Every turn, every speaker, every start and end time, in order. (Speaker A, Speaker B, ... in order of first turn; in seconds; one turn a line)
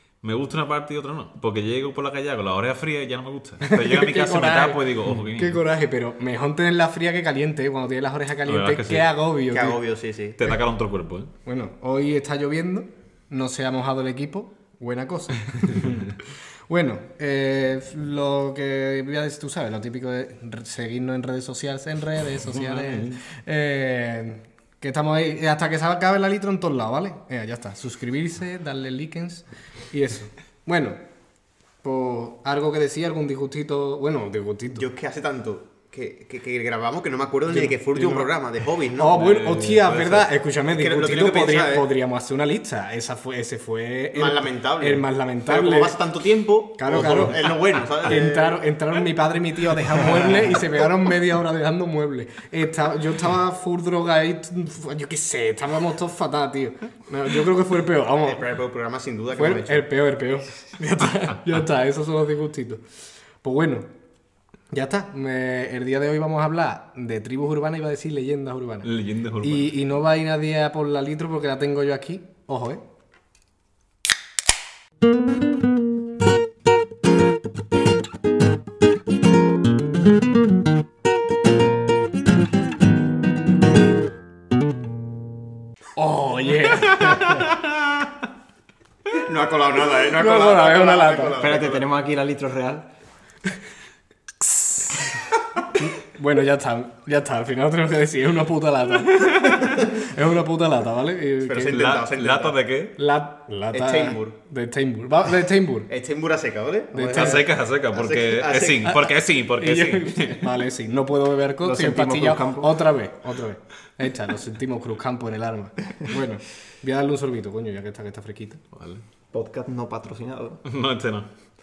Speaker A: 0.2-5.6
Speaker B: 3.6-9.8
Speaker A: 8.4-9.2
Speaker C: 9.5-10.4
Speaker A: 10.4-11.3
Speaker B: 11.4-16.1
Speaker B: 16.7-31.0
Speaker A: 22.4-23.2
Speaker B: 31.8-34.9
Speaker C: 34.8-39.2
Speaker B: 37.5-38.3
Speaker B: 39.0-46.0
Speaker A: 39.1-40.3
Speaker C: 40.7-41.9
Speaker C: 44.1-48.7
Speaker B: 46.8-58.4
Speaker C: 58.2-59.9
Speaker B: 59.4-62.8
Speaker B: 63.4-63.9
Speaker B: 64.7-68.9
Speaker A: 68.8-69.7
Speaker B: 69.4-72.8
Speaker B: 86.0-87.4
Speaker C: 89.1-91.8
Speaker B: 90.1-91.5
Speaker D: 91.4-92.9
Speaker B: 94.4-95.1
Speaker B: 95.8-102.0
Speaker A: 99.2-99.7
Speaker C: 101.5-102.6
Speaker A: 101.7-103.0
Speaker B: 103.0-105.9
Speaker C: 103.7-104.3
Speaker C: 105.9-109.1
Speaker B: 106.9-107.5
Speaker A: 107.1-110.5
Speaker B: 109.6-118.6
Speaker D: 111.6-112.8
Speaker A: 118.7-119.0
Speaker D: 119.3-120.6
Speaker A: 120.6-121.3